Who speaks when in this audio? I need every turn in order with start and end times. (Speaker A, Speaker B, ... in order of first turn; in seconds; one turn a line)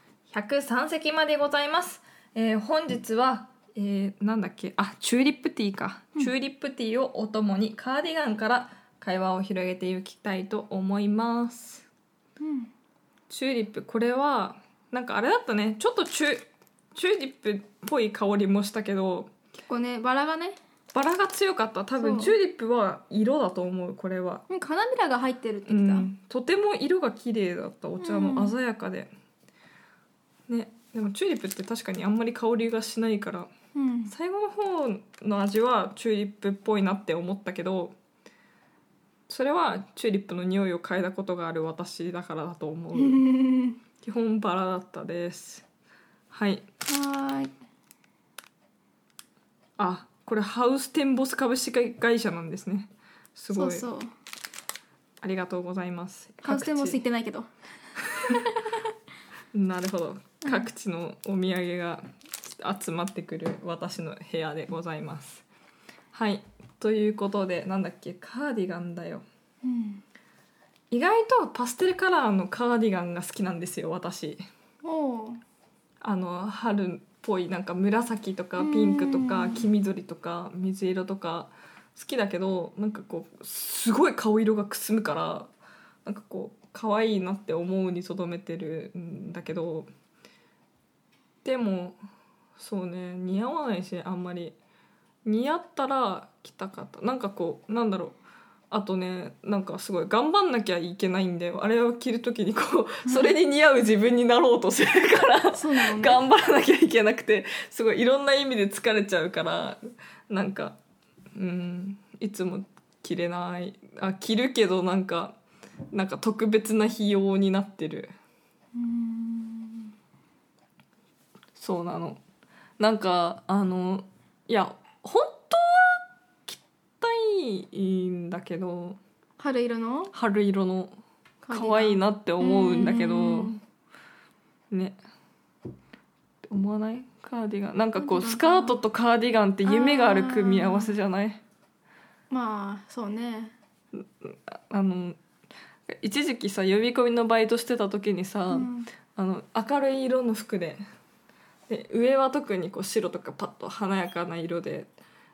Speaker A: 0.3-11.9
Speaker B: 12.4-12.7
Speaker A: 13.3-19.3
Speaker B: 19.7-20.6
Speaker A: 20.9-24.5
Speaker B: 22.0-22.3
Speaker B: 24.5-26.1
Speaker A: 25.7-29.1
Speaker B: 28.0-28.6
Speaker A: 30.5-33.5
Speaker B: 33.8-34.1
Speaker A: 34.1-38.0
Speaker A: 39.3-43.4
Speaker B: 43.0-43.8
Speaker A: 44.0-45.7
Speaker A: 46.3-46.7
Speaker B: 46.9-47.5
Speaker A: 49.8-53.9
Speaker B: 53.5-54.1
Speaker A: 55.2-57.0
Speaker B: 56.4-57.5
Speaker A: 59.5-65.5
Speaker A: 66.1-69.2
Speaker B: 69.6-70.0
Speaker A: 70.9-74.4
Speaker B: 74.8-75.4
Speaker A: 76.0-85.5
Speaker B: 78.6-79.7
Speaker A: 86.0-89.9
Speaker A: 91.4-92.0
Speaker A: 92.6-94.6
Speaker A: 95.2-98.2
Speaker A: 98.7-110.8
Speaker B: 103.0-103.3
Speaker B: 105.5-106.2
Speaker A: 111.3-115.4
Speaker A: 115.9-118.1
Speaker B: 118.8-119.9
Speaker A: 121.5-122.2
Speaker A: 122.8-129.0
Speaker B: 129.4-130.1
Speaker A: 130.1-130.9
Speaker B: 131.4-133.6
Speaker A: 131.5-133.6
Speaker A: 134.7-135.0
Speaker A: 136.5-141.4
Speaker B: 137.9-138.8
Speaker B: 139.7-140.9
Speaker B: 142.3-143.6
Speaker A: 143.9-145.2
Speaker A: 145.9-150.8
Speaker B: 148.5-148.9
Speaker A: 151.7-154.9